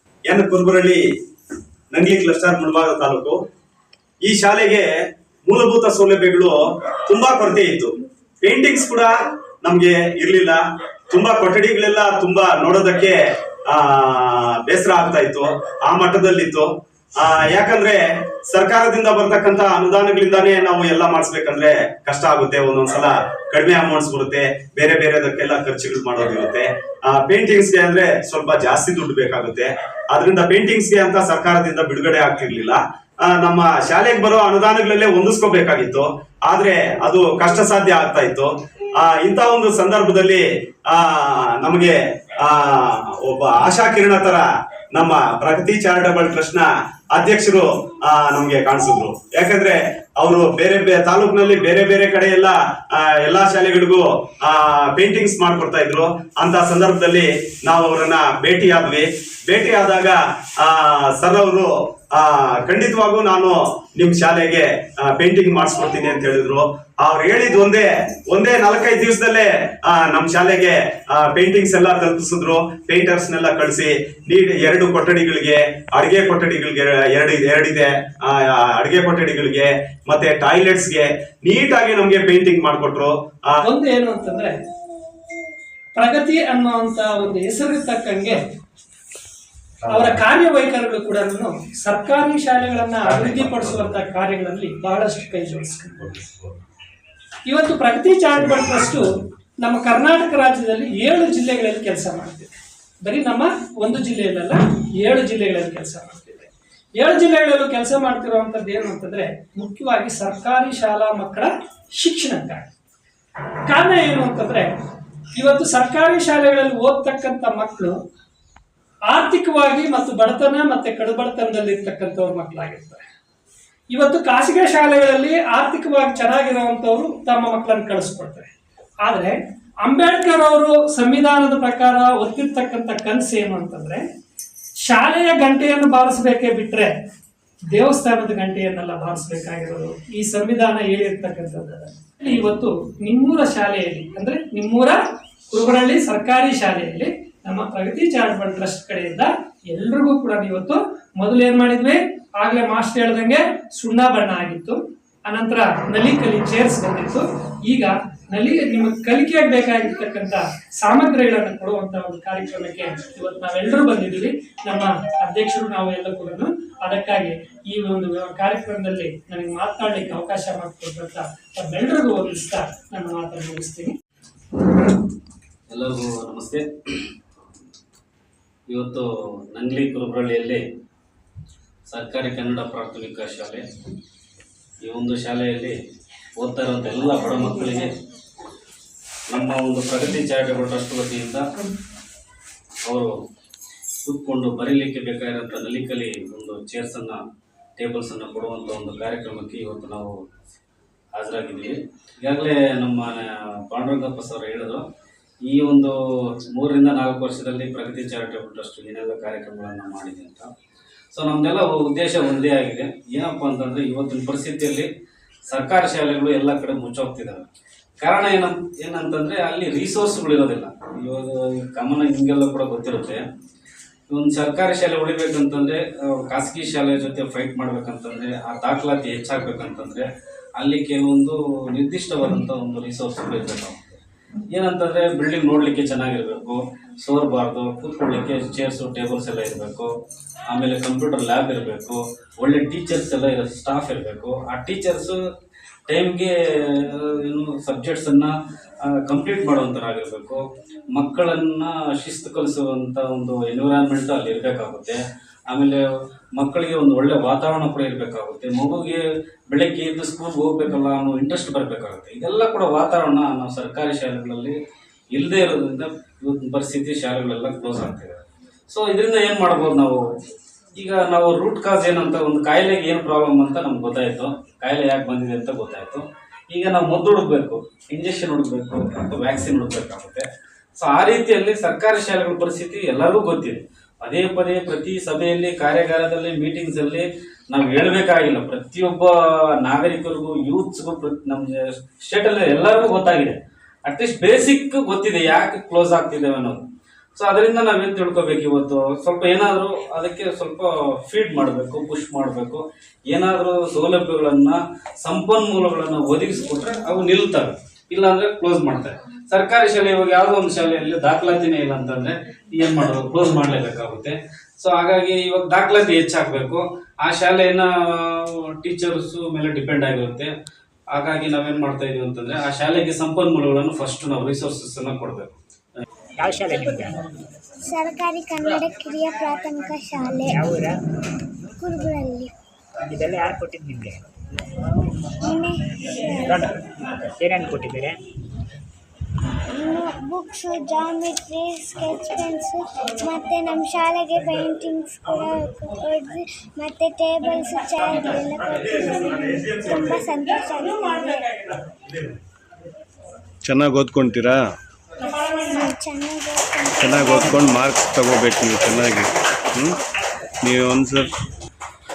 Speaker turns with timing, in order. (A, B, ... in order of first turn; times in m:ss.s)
0:00.3-0:01.0 A
0:01.9-0:03.4 A
0:04.2-0:04.9 A
0:05.4-0:10.6 A
0:11.1-0:44.4 A
0:44.9-1:23.6 A
1:23.6-1:24.6 B
1:25.9-1:28.4 B
1:29.9-1:36.2 B
1:37.5-1:39.1 B
1:39.6-1:52.6 B
1:53.7-1:54.7 B
1:55.3-1:58.0 B
1:59.1-2:03.0 B
2:03.9-2:08.5 B
2:09.0-2:14.0 B
2:14.8-2:16.9 B
2:17.7-2:54.0 B
2:55.7-2:56.6 C
2:58.7-3:00.6 C
3:01.9-3:03.6 C
3:04.8-3:05.8 C
3:06.4-3:07.9 C
3:09.3-3:11.5 C
3:12.8-3:13.1 C
3:14.0-3:17.2 C
3:17.8-3:20.1 C
3:21.2-3:24.8 C
3:25.5-3:30.5 C
3:31.1-3:34.9 C
3:35.5-3:37.5 C
3:38.0-3:43.2 C
3:44.1-3:50.0 C
3:50.6-3:54.0 C
3:54.5-3:59.9 C
4:00.5-4:05.2 C
4:05.9-4:08.3 C
4:08.8-4:10.4 C
4:10.9-4:15.0 C
4:15.5-4:15.8 C
4:16.4-4:24.6 C
4:25.1-4:30.0 C
4:30.8-4:40.2 C
4:40.8-4:56.6 C
4:57.2-5:20.3 C
5:20.9-5:25.3 C
5:26.2-5:27.0 D
5:27.6-5:30.4 E
5:30.3-5:30.7 D
5:31.6-5:32.3 E
5:32.8-5:34.0 D
5:35.2-5:36.3 E
5:36.2-5:38.0 D
5:39.5-5:51.4 E
5:49.3-5:49.8 A
5:53.5-5:54.4 F
5:55.3-5:57.8 E
5:57.8-5:59.0 F
6:00.5-6:01.0 F